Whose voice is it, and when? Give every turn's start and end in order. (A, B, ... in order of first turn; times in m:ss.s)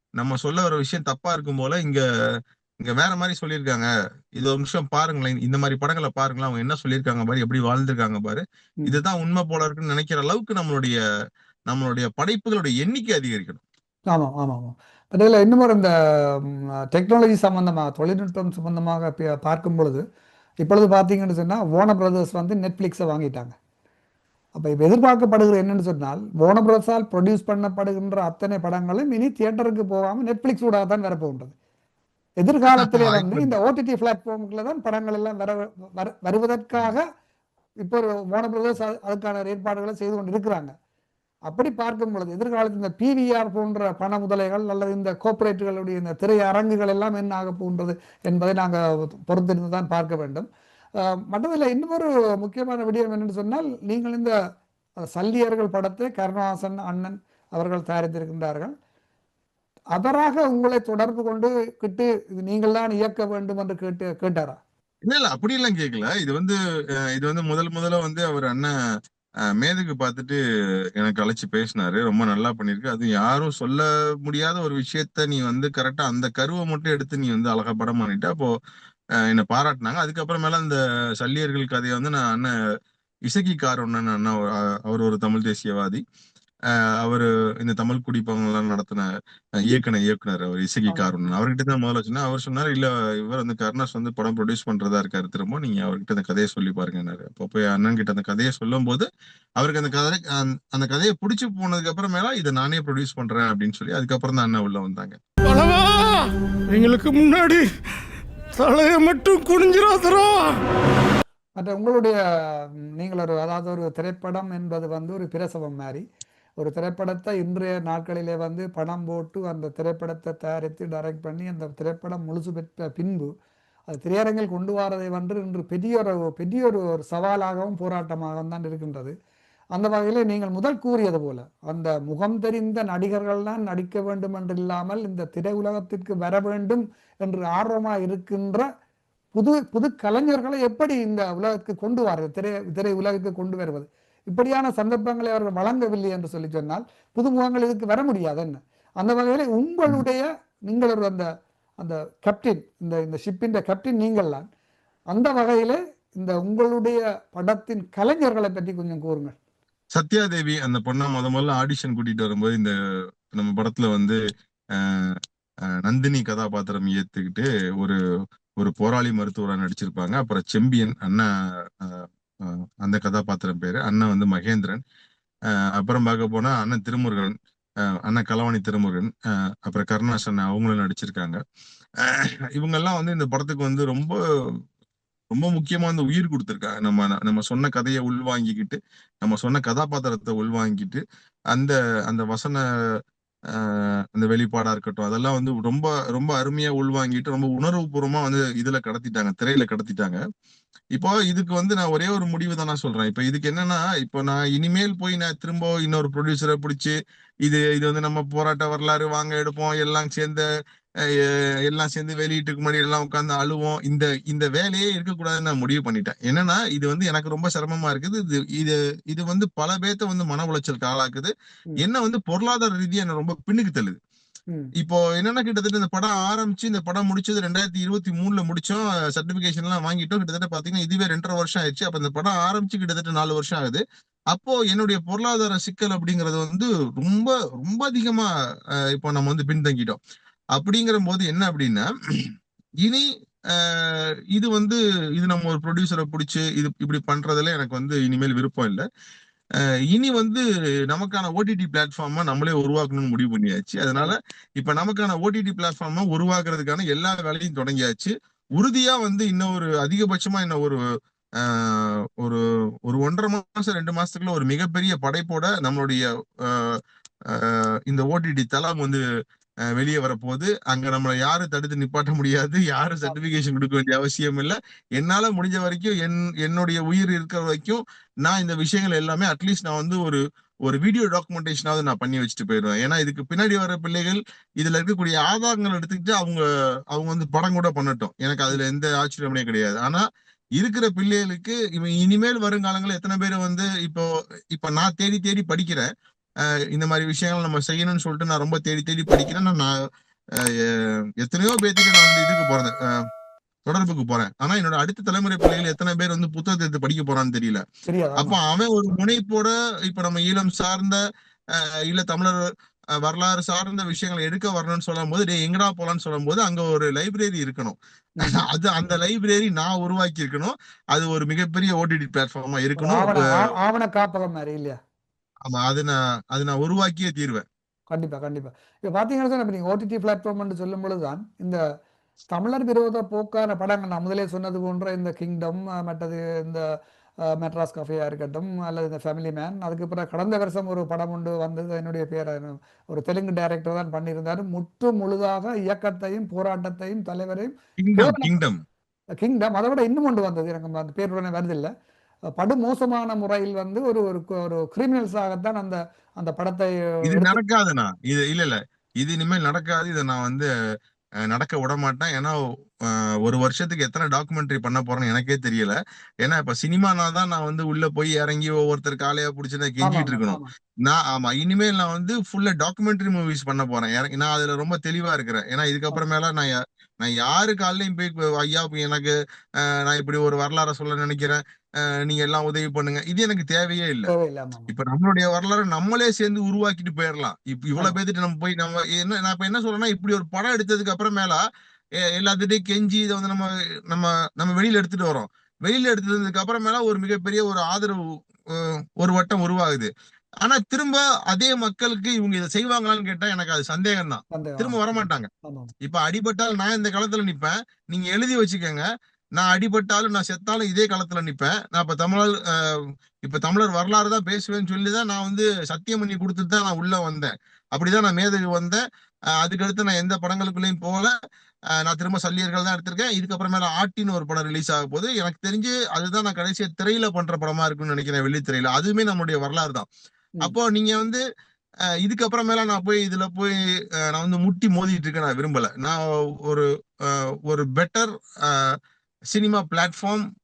0:00.2-0:02.0 A
0:02.8-0:11.0 A
0:11.7-0:13.6 A
0:14.1-0:15.9 B
0:16.9-0:20.0 B
0:20.6-0:23.5 B
0:24.5-0:31.5 B
0:32.4-0:37.0 B
0:32.8-0:33.5 A
0:37.8-0:40.7 B
0:41.5-0:50.5 B
0:51.0-0:54.4 B
0:55.1-0:58.7 B
1:00.0-1:04.6 B
1:05.0-1:06.6 A
1:07.1-1:08.7 A
1:09.6-1:10.4 A
1:11.0-1:18.5 A
1:19.2-1:22.5 A
1:23.2-1:26.0 A
1:26.7-1:29.1 A
1:29.6-1:39.1 A
1:30.9-1:31.1 B
1:39.6-1:45.2 A
1:45.4-1:47.7 C
1:48.5-1:50.6 C
1:51.6-1:56.0 B
1:56.6-2:03.3 B
2:03.9-2:09.1 B
2:09.8-2:18.6 B
2:19.4-2:31.2 B
2:31.8-2:34.5 B
2:35.1-2:39.4 B
2:40.0-2:42.7 A
2:43.3-2:44.2 A
2:44.7-2:48.0 A
2:48.6-2:54.8 A
2:55.5-2:57.3 A
2:58.0-3:01.4 A
3:02.0-3:04.6 A
3:05.3-3:12.6 A
3:13.5-3:20.2 A
3:20.9-3:30.4 A
3:31.0-3:44.0 A
3:44.8-3:58.3 A
3:58.8-4:00.0 A
4:00.5-4:02.3 A
4:02.8-4:08.8 A
4:09.6-4:20.8 A
4:21.4-4:29.0 A
4:29.7-4:50.0 A
4:50.6-4:55.9 A
4:56.7-4:59.8 A
5:00.3-5:02.8 A
5:03.7-5:07.6 A
5:07.9-5:08.4 B
5:08.2-5:11.0 A
5:11.5-5:12.4 A
5:13.0-5:23.5 A
5:22.8-5:24.8 B
5:25.4-5:27.5 A
5:27.9-5:31.6 B
5:32.3-5:36.6 B
5:37.4-5:48.3 B
5:47.8-5:48.6 A
5:49.2-5:51.7 B
5:52.4-5:57.4 B
5:57.0-6:00.5 A
6:01.2-6:24.1 A
6:09.8-6:10.5 B
6:24.1-6:24.7 B
6:24.7-6:31.4 A
6:32.0-6:39.9 A
6:40.4-6:45.3 A
6:44.3-6:44.8 B
6:45.4-6:45.7 B
6:45.8-6:48.8 A
6:49.4-6:58.8 A
6:59.4-7:01.1 A
7:01.8-7:09.9 A
7:10.4-7:11.2 A
7:12.0-7:18.8 A
7:19.3-7:20.2 A